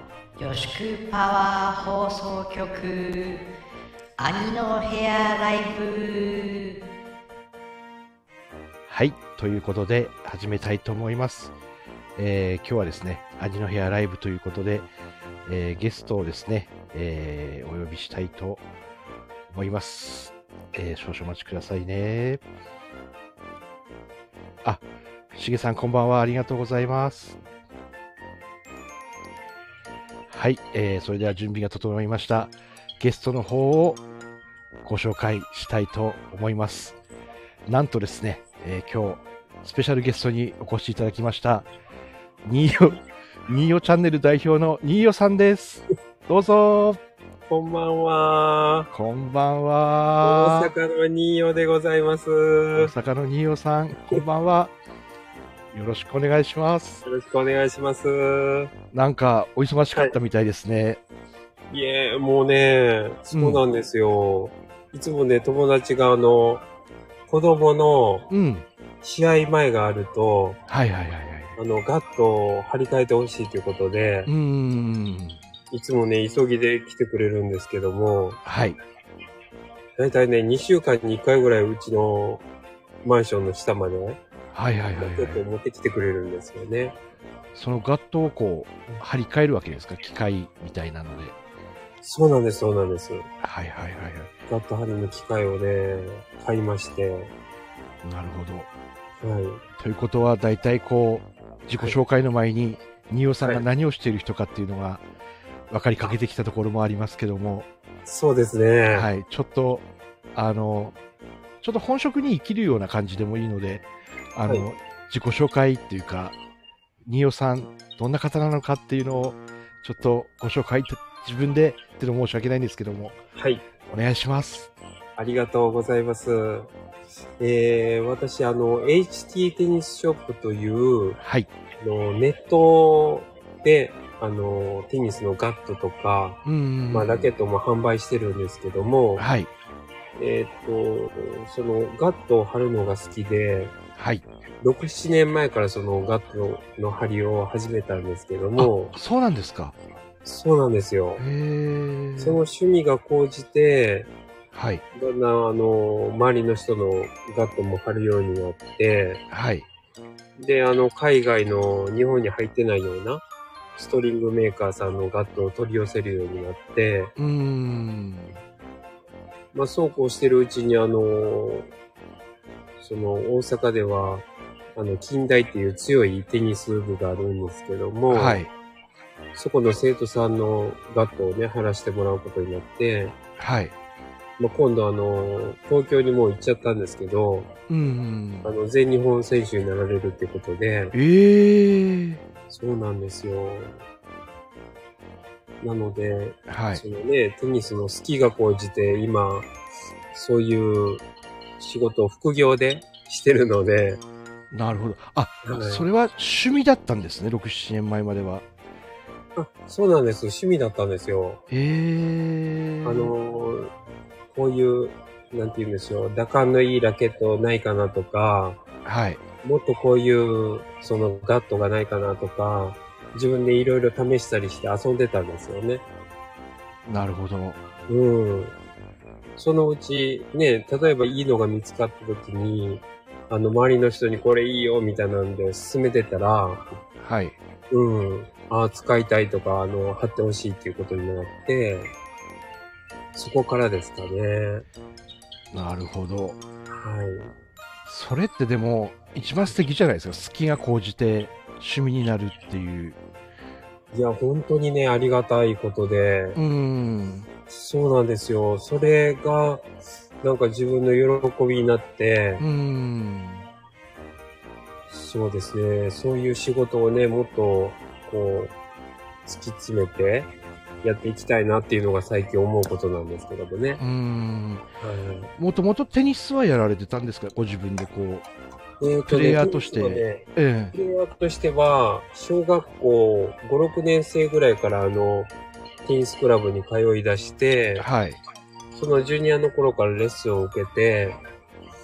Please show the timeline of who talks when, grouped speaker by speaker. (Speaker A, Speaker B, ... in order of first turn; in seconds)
Speaker A: 0.4-3.4, 4.2-6.8
Speaker B: 8.9-11.5, 12.2-14.9, 15.4-18.6, 19.5-22.4, 24.6-27.4, 30.3-34.0, 34.8-37.0, 37.6-41.7, 42.4-47.0, 48.9-50.7, 52.8-54.7, 55.7-57.0, 58.9-61.0, 63.3-63.6, 68.3-68.7, 70.7-71.5, 74.3-75.4, 78.4-78.8, 84.5-85.4, 87.5-91.3, 93.4-94.3, 98.0-98.7, 99.8-105.0, 105.7-107.7, 108.9-110.9, 111.6-116.3, 117.0-123.2, 123.8-124.7, 131.2-131.5, 136.4-137.3, 139.2-139.5, 143.9-144.2, 148.6-149.8, 151.2-152.4, 154.5-154.8, 159.3-159.7, 167.2-168.4, 178.1-178.5, 183.4-183.7, 187.7-188.5, 190.9-192.2, 196.5-196.8, 204.5-208.4, 211.5-213.1, 218.8-219.2, 226.8-227.6, 237.0-237.3, 245.5-246.4, 247.8-253.0, 256.4-257.3, 262.4-263.4, 273.8-274.6, 275.4-278.2, 279.1-280.7, 287.8-288.2
Speaker C: 47.5-48.9, 50.2-52.9, 57.0-58.7, 61.7-66.6, 67.3-68.3, 69.0-70.6, 71.5-74.3, 75.7-78.4, 80.0-82.4, 83.0-84.2, 85.0-87.0, 92.0-93.3, 94.5-97.3, 99.2-99.6, 108.0-109.1, 123.3-123.6, 125.2-126.7, 127.4-131.2, 131.8-139.2, 140.2-143.7, 144.6-148.9, 150.2-151.2, 152.2-154.1, 154.9-159.2, 160.4-163.2, 163.8-167.1, 169.5-171.7, 172.8-178.4, 179.3-183.2, 184.4-187.5, 188.4-190.9, 192.5-193.8, 195.6-199.5, 200.1-201.0, 201.6-204.0, 205.4-205.9, 209.3-211.4, 212.8-213.7, 214.3-218.6, 219.4-225.8, 227.9-228.5, 229.4-236.7, 237.7-241.9, 243.1-244.6, 246.7-247.3, 253.9-256.4, 257.5-259.7, 260.2-262.4, 264.9-268.5, 269.2-273.8, 274.8-275.3, 278.8-285.3, 285.8-287.9, 288.7-291.2